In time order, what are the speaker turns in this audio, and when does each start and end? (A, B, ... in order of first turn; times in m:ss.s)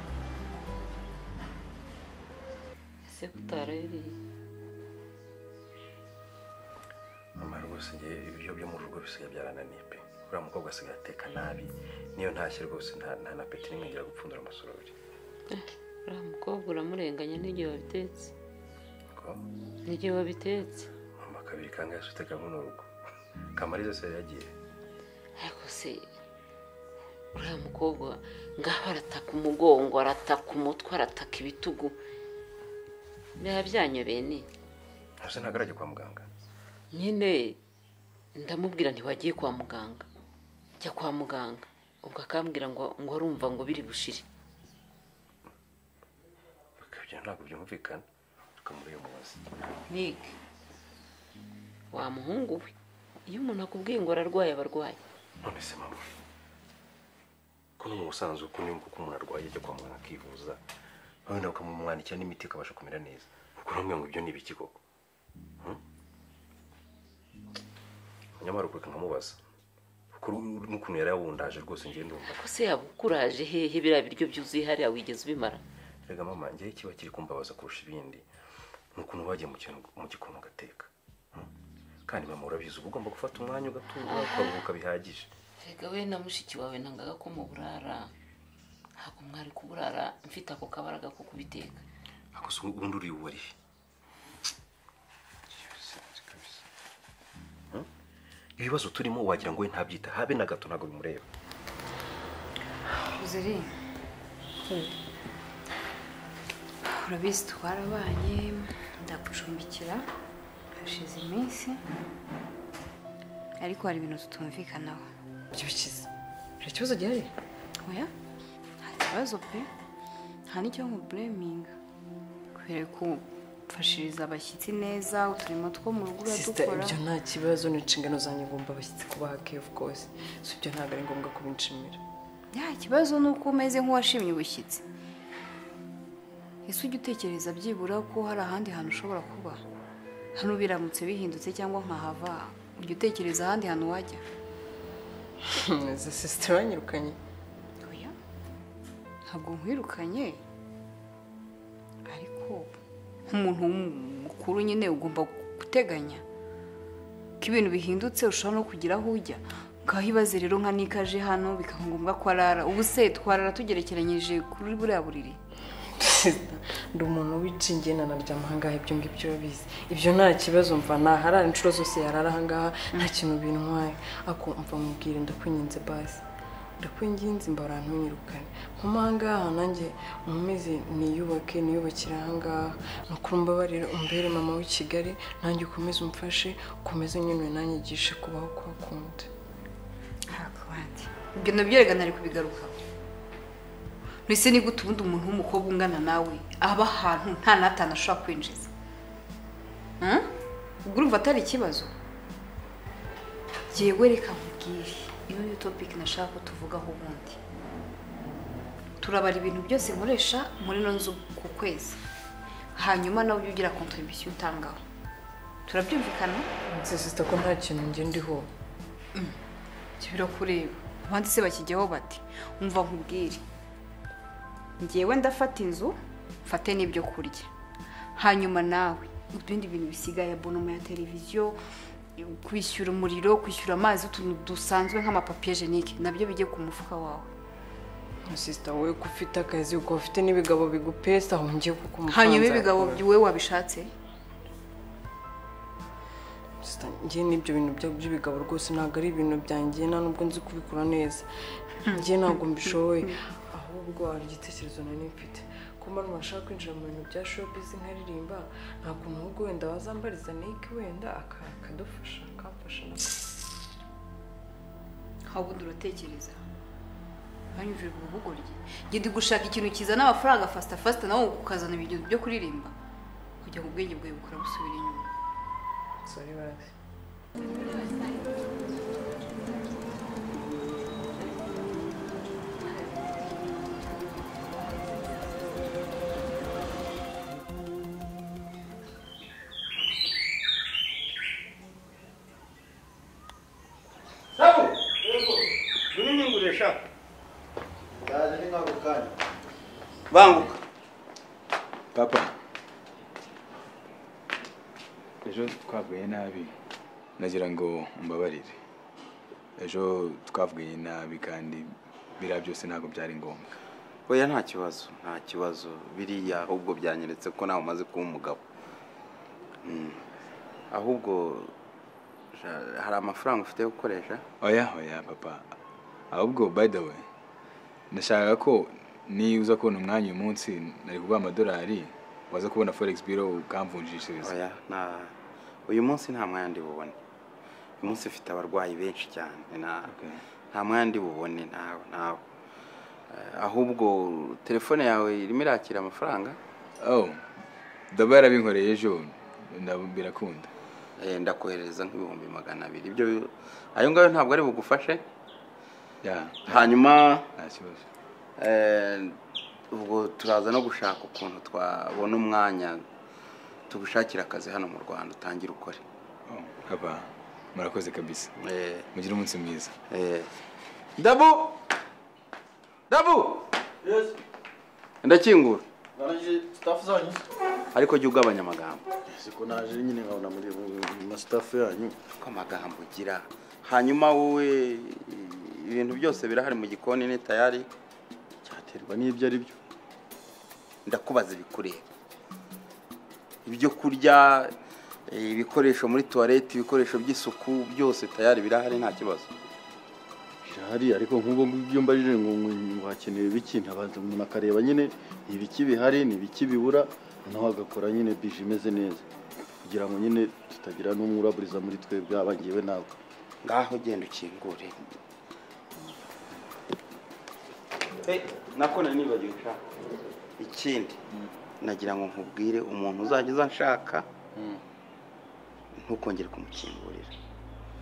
0:03.0-0:04.2 A
0:07.4-0:14.9 B
0:15.5-0:18.3 A
0:19.1-0:19.4 B
0:19.8-0:20.9 A
0:21.2-0:22.9 B
0:23.5-0:24.5 B
0:25.4-0:26.0 A
0:27.3-0:32.0 A
0:33.4-0:34.5 A
0:35.2-0:36.3 B
0:36.9-0:37.6 A
0:38.3-0:40.0 A
0:40.8-0:44.2 A
0:46.8-0:48.0 B
0:48.6-0:49.5 B
0:49.9-0:50.3 A
0:51.9-0:52.7 A
0:53.3-0:55.0 A
0:55.4-0:56.0 B
0:57.8-1:00.6 B
1:01.2-1:04.8 B
1:08.4-1:09.4 B
1:10.1-1:12.4 B
1:12.2-1:15.6 A
1:16.0-1:18.2 B
1:18.9-1:21.5 B
1:22.1-1:25.3 B
1:24.0-1:24.6 A
1:25.6-1:28.1 A
1:29.0-1:31.8 A
1:32.3-1:33.5 B
1:38.6-1:41.2 B
1:43.2-1:43.7 C
1:46.8-1:50.0 C
1:50.8-1:51.8 C
1:53.6-1:55.0 C
1:55.5-1:56.1 D
1:56.6-1:57.3 D
1:57.8-1:58.1 C
1:58.8-1:59.7 C
2:00.5-2:01.7 C
2:02.5-2:06.9 C
2:06.2-2:12.0 D
2:12.5-2:14.8 C
2:16.6-2:19.6 C
2:20.3-2:24.2 C
2:25.4-2:27.2 D
2:27.8-2:28.1 C
2:29.3-2:30.4 C
2:32.0-2:32.7 C
2:33.3-2:36.2 C
2:37.4-2:45.4 C
2:46.0-2:56.2 D
2:56.8-3:09.3 D
3:10.3-3:12.7 C
3:14.3-3:18.7 C
3:20.8-3:21.9 C
3:23.7-3:27.4 C
3:29.0-3:32.0 C
3:32.7-3:34.8 C
3:35.6-3:36.5 C
3:36.7-3:38.5 D
3:40.0-3:43.4 C
3:44.8-3:47.5 C
3:48.2-3:51.6 C
3:52.2-3:57.3 C
3:58.2-4:03.0 D
4:02.1-4:03.9 C
4:06.6-4:11.3 D
4:11.8-4:23.2 D
4:25.3-4:26.4 C
4:27.5-4:32.7 C
4:33.4-4:35.1 C
4:36.0-4:36.7 D
4:54.4-4:55.5 E
4:55.9-4:56.8 F
4:58.0-4:59.2 E
5:00.1-5:00.6 F
5:01.9-5:02.3 G
5:05.2-5:06.5 G
5:07.2-5:08.5 G
5:09.6-5:13.4 G
5:14.1-5:18.4 F
5:19.6-5:20.1 F
5:20.7-5:21.5 F
5:22.3-5:24.2 F
5:24.4-5:25.4 G
5:26.1-5:27.0 G
5:27.9-5:34.3 G
5:34.2-5:35.1 F
5:35.6-5:37.0 F
5:37.8-5:39.9 F
5:40.5-5:42.2 F
5:43.1-5:46.4 F
5:46.8-5:47.2 G
5:47.9-5:50.5 G
5:51.0-5:55.0 F
5:56.0-5:56.6 G
5:56.4-5:57.2 F
5:57.4-5:57.8 G
5:58.4-5:59.2 F
5:59.7-6:02.8 F
6:03.7-6:05.8 F
6:06.3-6:08.3 G
6:08.4-6:08.8 F
6:09.0-6:09.7 G
6:09.9-6:10.3 F
6:11.0-6:11.3 F
6:12.9-6:13.4 F
6:13.8-6:14.1 E
6:15.0-6:15.6 F
6:16.0-6:17.2 E
6:17.7-6:18.9 F
6:19.1-6:22.0 E
6:22.2-6:27.7 F
6:28.4-6:29.6 E
6:30.8-6:31.8 F
6:33.4-6:34.5 F
6:35.1-6:39.3 F
6:40.4-6:49.0 E
6:49.6-6:52.9 E
6:53.4-6:54.9 F
6:58.0-6:59.6 F
7:00.4-7:01.0 F
7:01.6-7:04.1 F
7:05.7-7:07.1 F